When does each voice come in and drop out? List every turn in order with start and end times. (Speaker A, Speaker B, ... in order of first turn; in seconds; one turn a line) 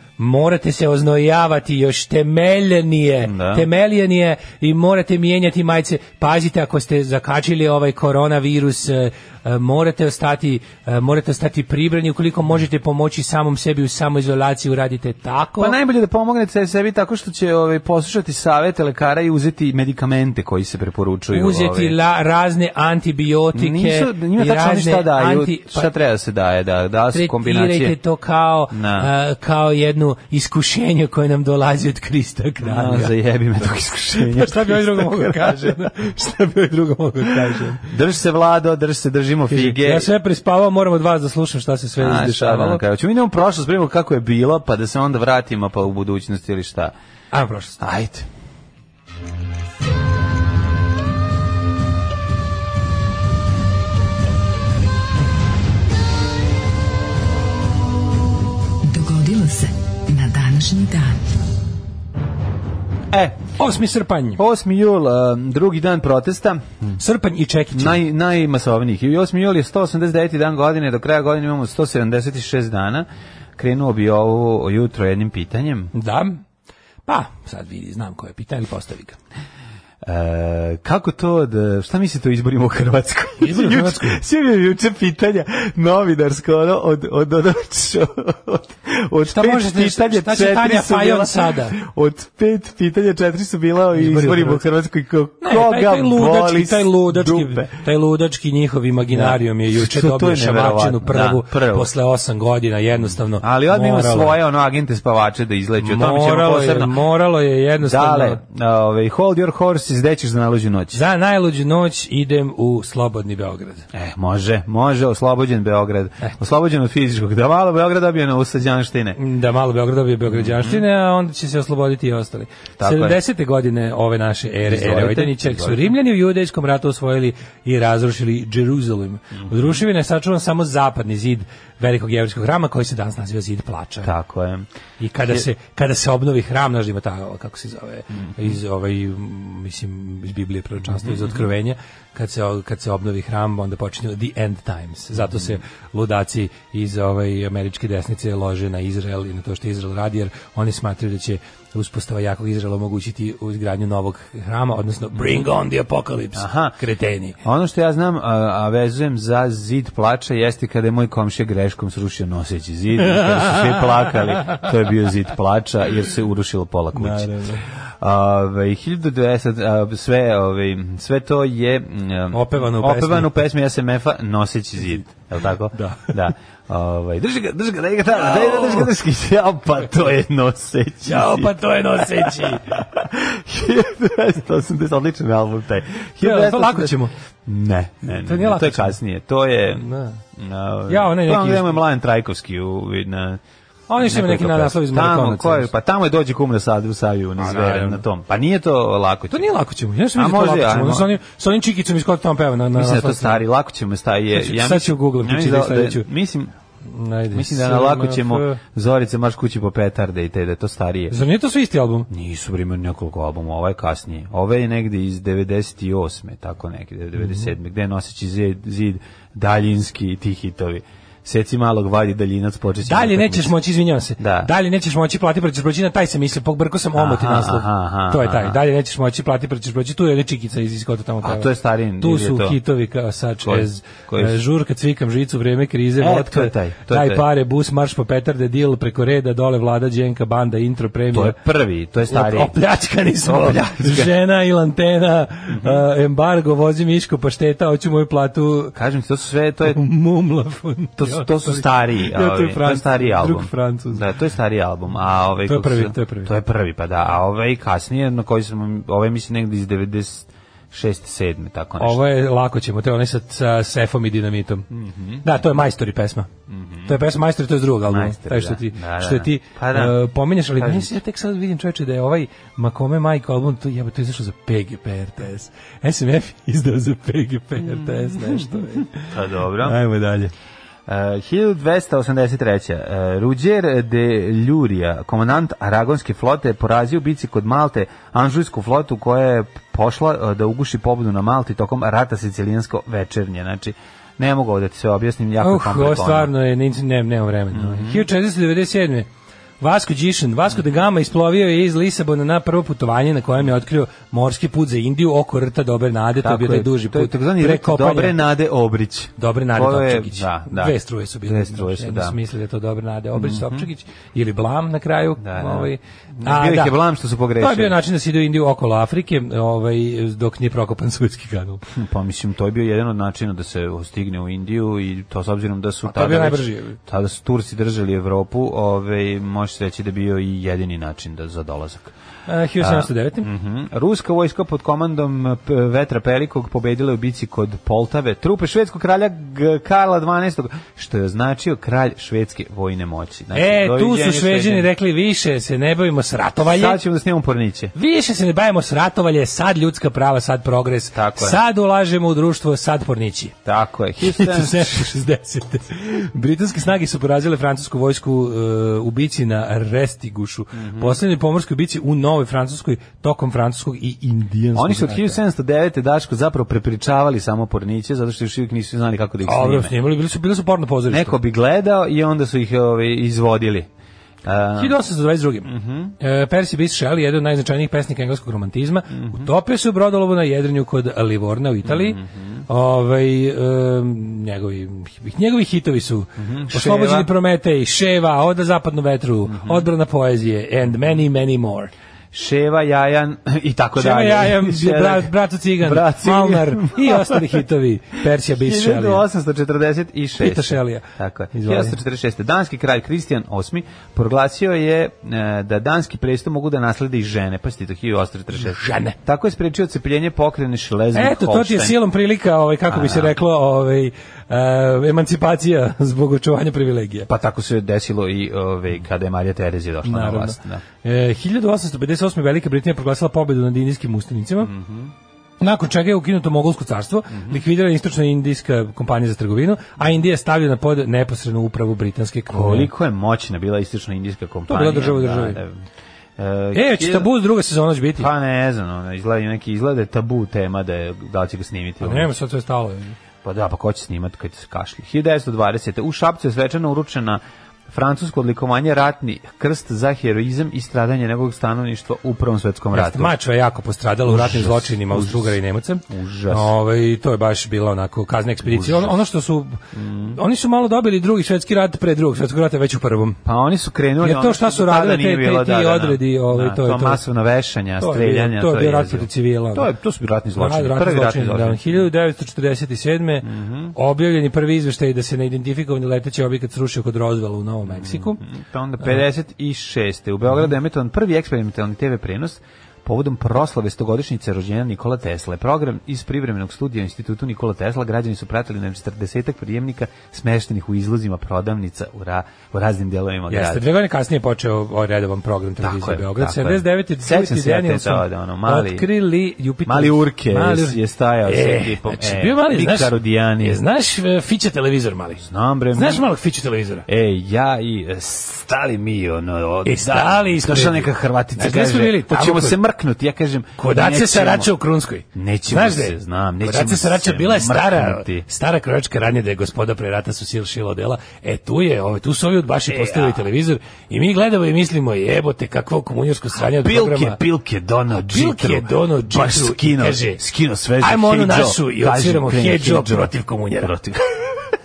Speaker A: 0.2-15.7
Speaker B: 3.2-3.7
Speaker B: 15.6-21.9
Speaker A: 21.3-25.9
Speaker B: 23.5-27.9
Speaker A: 27.1-33.1
Speaker B: 28.7-29.1
Speaker B: 32.6-35.8
Speaker A: 34.1-37.9
Speaker B: 37.2-40.1
Speaker A: 39.5-42.8
Speaker B: 42.0-46.9
Speaker A: 47.3-47.8
Speaker B: 47.8-48.3
Speaker C: 58.9-61.2
Speaker B: 63.1-63.4
Speaker A: 63.6-64.4
Speaker B: 64.4-66.9
Speaker A: 67.0-68.0
Speaker B: 67.7-75.9
Speaker A: 75.9-76.4
Speaker A: 77.1-79.2
Speaker B: 80.0-97.8
Speaker A: 83.4-84.2
Speaker A: 89.2-91.8
Speaker A: 93.9-94.6
Speaker A: 95.4-104.4
Speaker B: 99.1-101.9
Speaker B: 103.4-107.0
Speaker A: 105.8-108.4
Speaker B: 107.8-111.0
Speaker A: 110.9-113.9
Speaker B: 113.9-119.2
Speaker A: 119.2-134.1
Speaker B: 120.3-120.8
Speaker B: 122.8-123.2
Speaker B: 124.6-125.9
Speaker B: 129.4-129.8
Speaker B: 134.0-134.7
Speaker A: 135.0-157.4
Speaker B: 138.2-138.6
Speaker B: 140.8-141.4
Speaker B: 145.2-145.5
Speaker B: 156.3-156.8
Speaker B: 157.4-193.4
Speaker A: 163.1-163.7
Speaker A: 166.9-167.6
Speaker A: 172.3-173.4
Speaker A: 175.7-176.1
Speaker A: 178.1-178.9
Speaker A: 181.0-182.7
Speaker A: 186.2-187.1
Speaker A: 188.1-189.0
Speaker A: 189.8-190.2
Speaker A: 190.9-191.7
Speaker A: 193.9-195.7
Speaker B: 194.0-199.5
Speaker A: 197.4-198.0
Speaker A: 199.3-203.4
Speaker B: 200.1-201.1
Speaker B: 202.7-206.5
Speaker A: 204.3-206.1
Speaker A: 206.8-208.6
Speaker B: 207.3-211.2
Speaker A: 211.1-212.1
Speaker B: 212.1-223.6
Speaker A: 217.2-217.5
Speaker A: 222.9-241.4
Speaker B: 224.2-224.5
Speaker B: 226.9-228.6
Speaker B: 231.2-232.6
Speaker B: 233.4-234.4
Speaker B: 236.0-237.2
Speaker B: 241.1-242.6
Speaker A: 242.1-248.7
Speaker B: 243.2-244.1
Speaker B: 245.5-245.8
Speaker B: 248.7-249.8
Speaker A: 249.6-254.0
Speaker B: 251.0-262.0
Speaker A: 255.4-256.3
Speaker A: 261.8-264.7
Speaker B: 264.7-265.3
Speaker A: 265.2-266.3
Speaker B: 266.5-266.9
Speaker A: 266.9-279.1
Speaker B: 267.9-270.0
Speaker B: 270.6-271.0
Speaker B: 279.0-279.8
Speaker A: 279.6-280.3
Speaker B: 280.9-296.3
Speaker A: 295.4-299.1
Speaker B: 297.5-298.1
Speaker A: 299.6-308.2
Speaker B: 306.2-312.1
Speaker A: 309.2-316.8
Speaker B: 313.1-313.7
Speaker B: 315.2-317.7
Speaker A: 317.4-321.6
Speaker B: 321.7-331.9
Speaker A: 325.9-326.8
Speaker A: 332.3-333.3
Speaker B: 332.6-344.7
Speaker A: 343.3-346.8
Speaker B: 346.4-347.7
Speaker A: 347.7-353.4
Speaker B: 350.9-351.4
Speaker B: 353.4-354.9
Speaker A: 354.0-365.2
Speaker B: 360.5-361.0
Speaker B: 364.6-369.7
Speaker A: 369.2-371.2
Speaker B: 370.9-373.7
Speaker B: 374.2-374.8
Speaker A: 374.6-391.7
Speaker B: 375.4-375.9
Speaker B: 378.9-379.3
Speaker B: 381.6-382.4
Speaker B: 386.2-387.1
Speaker B: 389.3-389.7
Speaker B: 392.1-397.4
Speaker A: 393.8-399.0
Speaker B: 398.2-411.8
Speaker A: 400.2-401.8
Speaker A: 408.3-408.9
Speaker A: 410.9-417.1
Speaker B: 412.7-413.1
Speaker B: 417.1-420.6
Speaker A: 419.9-424.5
Speaker B: 424.4-424.9
Speaker A: 425.4-432.7
Speaker B: 427.1-427.4
Speaker B: 432.3-435.6
Speaker A: 434.5-435.4
Speaker B: 436.2-437.1
Speaker A: 436.5-438.1
Speaker B: 438.0-442.1
Speaker A: 441.8-442.9
Speaker B: 443.2-453.1
Speaker A: 452.7-463.2
Speaker B: 454.1-455.3
Speaker B: 455.9-456.5
Speaker B: 458.4-459.0
Speaker B: 459.7-460.2
Speaker B: 463.2-471.9
Speaker A: 464.0-467.0
Speaker A: 467.8-469.7
Speaker A: 470.4-478.2
Speaker B: 473.2-473.7
Speaker B: 477.6-493.6
Speaker A: 493.3-506.9
Speaker B: 495.6-498.9
Speaker B: 499.6-503.6
Speaker B: 505.2-506.1
Speaker B: 506.9-514.5
Speaker A: 509.6-512.6
Speaker A: 513.6-527.2
Speaker B: 515.1-518.2
Speaker B: 522.7-523.2
Speaker B: 526.4-534.1
Speaker A: 528.1-530.2
Speaker A: 530.8-533.7